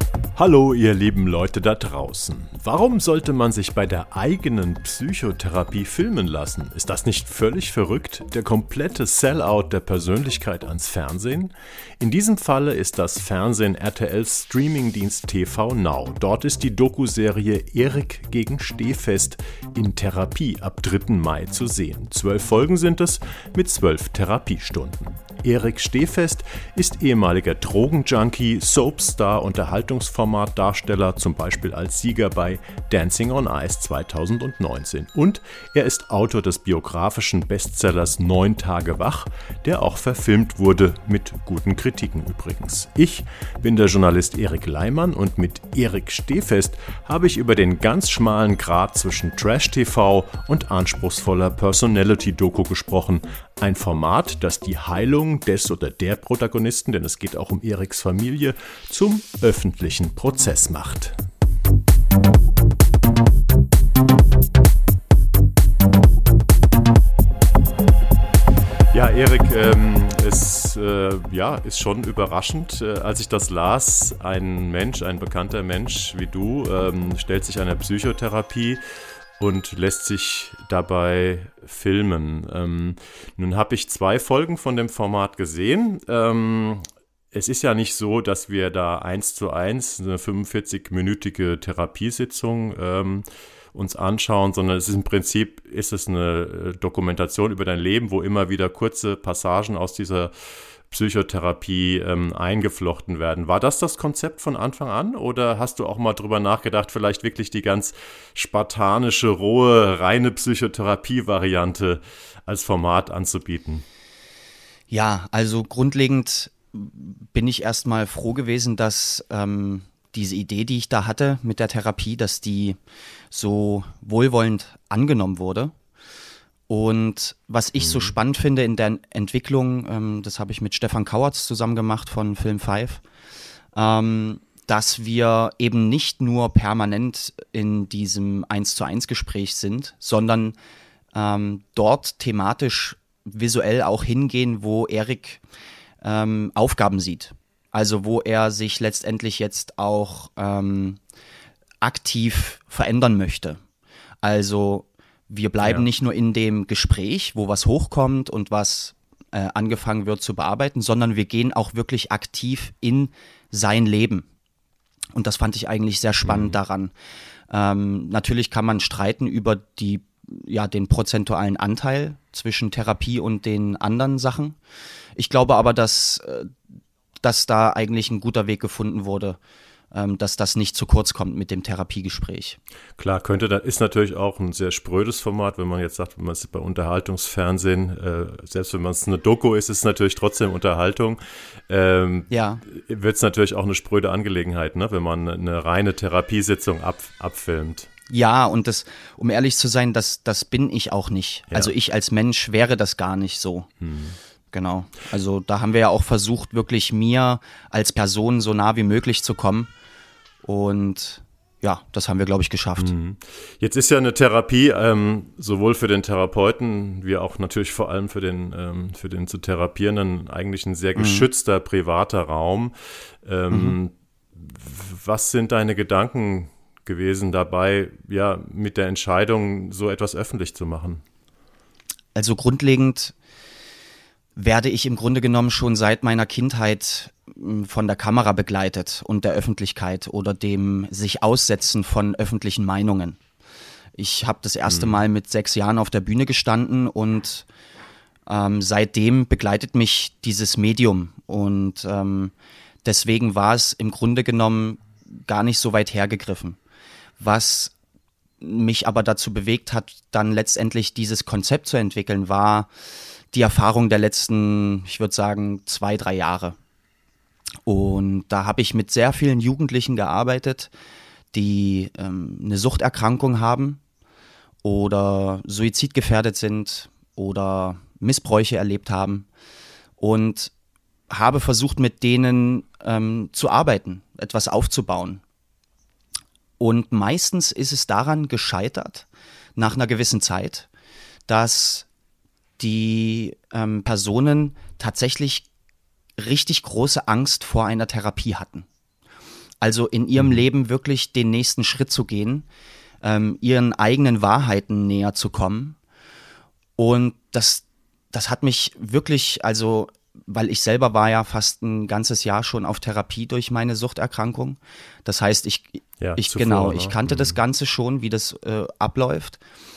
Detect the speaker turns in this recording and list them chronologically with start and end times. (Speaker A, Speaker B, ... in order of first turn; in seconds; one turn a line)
Speaker A: 0.3-61.2
Speaker A: 68.9-78.8
Speaker A: 79.4-100.3
Speaker A: 100.9-113.8
Speaker B: 114.9-122.8
Speaker B: 123.3-125.7
Speaker B: 126.7-133.0
Speaker A: 127.8-128.2
Speaker B: 133.7-140.5
Speaker B: 141.1-145.4
Speaker B: 146.0-151.0
Speaker B: 151.8-153.6
Speaker B: 154.2-164.2
Speaker A: 155.6-155.9
Speaker B: 165.2-166.9
Speaker A: 166.2-166.6
Speaker B: 167.5-174.6
Speaker B: 175.2-176.5
Speaker B: 177.2-179.4
Speaker B: 179.9-182.6
Speaker A: 183.0-197.9
Speaker B: 192.3-192.6
Speaker B: 198.1-203.7
Speaker A: 203.8-204.2
Speaker B: 204.5-209.7
Speaker B: 210.4-212.9
Speaker A: 212.8-231.0
Speaker B: 220.9-221.3
Speaker B: 223.5-223.8
Speaker B: 232.2-233.2
Speaker B: 234.3-243.2
Speaker B: 244.0-247.4
Speaker A: 244.7-245.0
Speaker B: 248.3-252.3
Speaker B: 252.8-256.6
Speaker B: 257.2-257.7
Speaker B: 258.4-262.7
Speaker B: 263.3-266.6
Speaker B: 267.6-270.7
Speaker B: 271.3-273.8
Speaker B: 274.6-279.3
Speaker B: 280.0-280.5
Speaker B: 281.1-285.2
Speaker B: 286.6-290.7
Speaker B: 291.3-291.9
Speaker B: 292.6-295.4
Speaker B: 296.2-298.6
Speaker B: 299.6-302.4
Speaker B: 303.0-305.8
Speaker B: 306.8-319.4
Speaker A: 316.0-317.4